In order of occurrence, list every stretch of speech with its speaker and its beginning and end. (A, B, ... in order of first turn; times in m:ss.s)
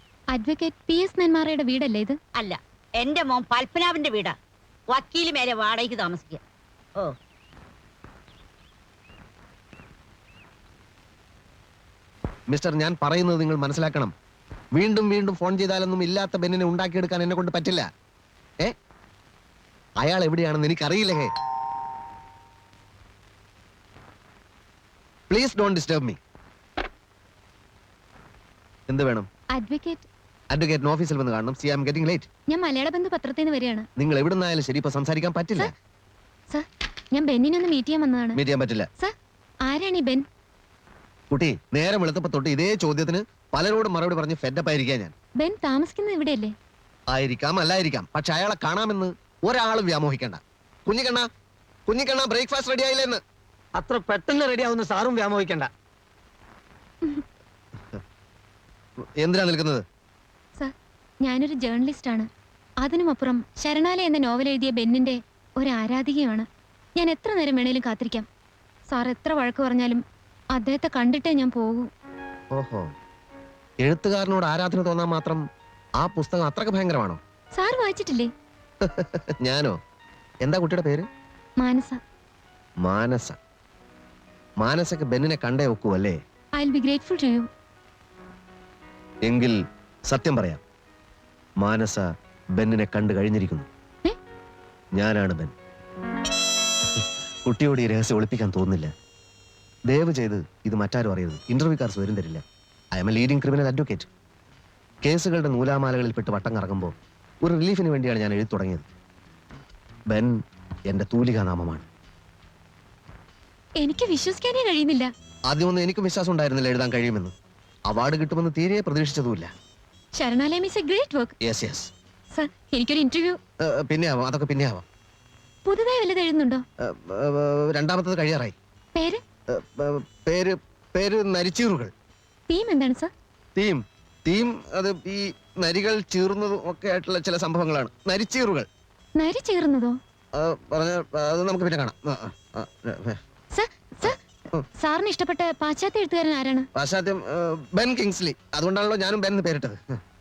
0:00.3-0:02.2 A
0:02.4-0:04.4 B
0:04.9-0:06.4 B
0:12.5-0:14.1 C
0:14.8-0:17.9 C
0:20.0-0:21.3 C
0:25.3-0:26.2 C
0:28.9-0:29.3 C
0:29.5-0:30.1 A
0:30.5-0:32.3 C
0:32.5-0:33.9 A
0:34.0-0:35.7 C
0:36.5-0:38.4 A
0:38.4-0:38.9 C
0:39.7-0:40.2 A
0:41.3-0:45.1 C
0:45.4-0:46.6 A
0:47.1-0:51.3 C
0:51.9-0:53.2 C
0:53.8-0:55.7 D
0:59.2-0:59.8 C
1:01.2-1:02.3 A
1:02.8-1:06.5 A
1:07.0-1:08.3 A
1:08.9-1:10.0 A
1:10.5-1:11.9 A
1:12.6-1:12.9 C
1:13.8-1:15.4 C
1:16.0-1:17.2 C
1:17.6-1:18.3 A
1:18.8-1:19.8 C
1:20.4-1:21.1 C
1:21.6-1:22.0 A
1:22.8-1:23.4 C
1:24.6-1:26.2 C
1:26.6-1:27.5 A
1:29.2-1:30.6 C
1:31.6-1:33.7 C
1:35.0-1:35.5 C
1:37.0-1:38.9 C
1:39.9-1:42.4 C
1:42.9-1:44.1 C
1:45.0-1:48.9 C
1:50.1-1:50.4 C
1:50.9-1:51.9 C
1:53.8-1:55.1 A
1:55.5-1:57.3 C
1:57.9-1:59.5 C
2:00.2-2:01.3 A
2:01.4-2:01.9 C
2:02.3-2:03.4 A
2:03.6-2:04.8 C
2:05.6-2:06.6 A
2:06.8-2:08.6 C
2:09.0-2:09.2 A
2:09.5-2:11.9 C
2:12.5-2:13.1 A
2:13.6-2:18.7 C
2:19.2-2:20.0 A
2:20.3-2:23.2 C
2:23.5-2:24.2 A
2:24.0-2:24.6 C
2:24.8-2:26.7 A
2:26.8-2:30.0 C